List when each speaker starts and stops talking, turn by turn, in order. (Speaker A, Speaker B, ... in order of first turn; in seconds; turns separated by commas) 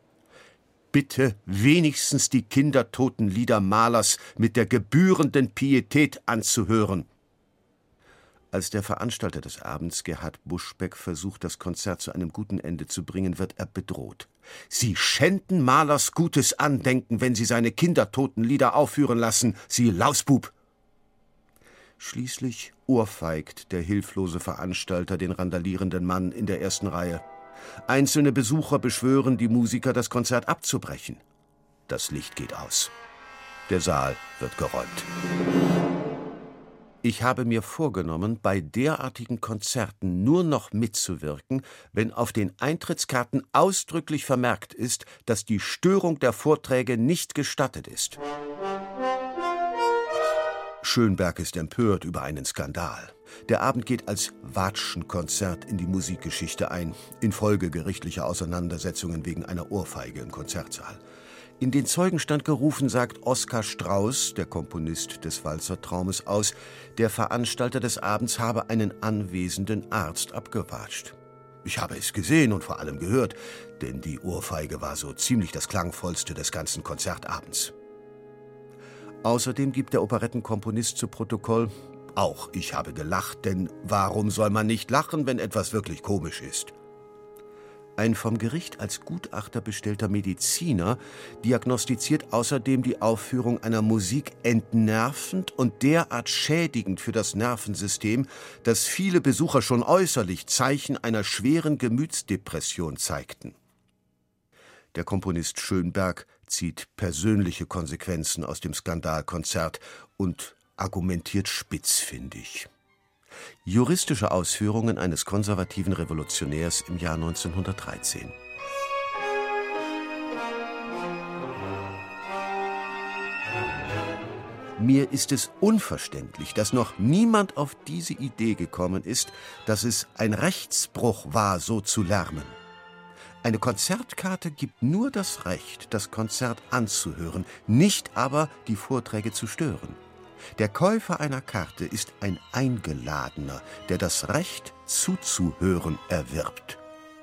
Speaker A: 0.9-7.1, Speaker A: 8.5-20.5, Speaker A: 22.0-27.2, Speaker A: 27.9-31.2, Speaker A: 31.9-32.9, Speaker A: 33.7-35.1, Speaker A: 37.0-48.2, Speaker A: 50.8-61.0, Speaker A: 61.6-77.7, Speaker A: 79.2-86.7, Speaker A: 88.0-103.6, Speaker A: 104.9-112.7, Speaker A: 113.7-118.4, Speaker A: 124.8-132.6, Speaker A: 133.4-140.0, Speaker A: 140.6-146.8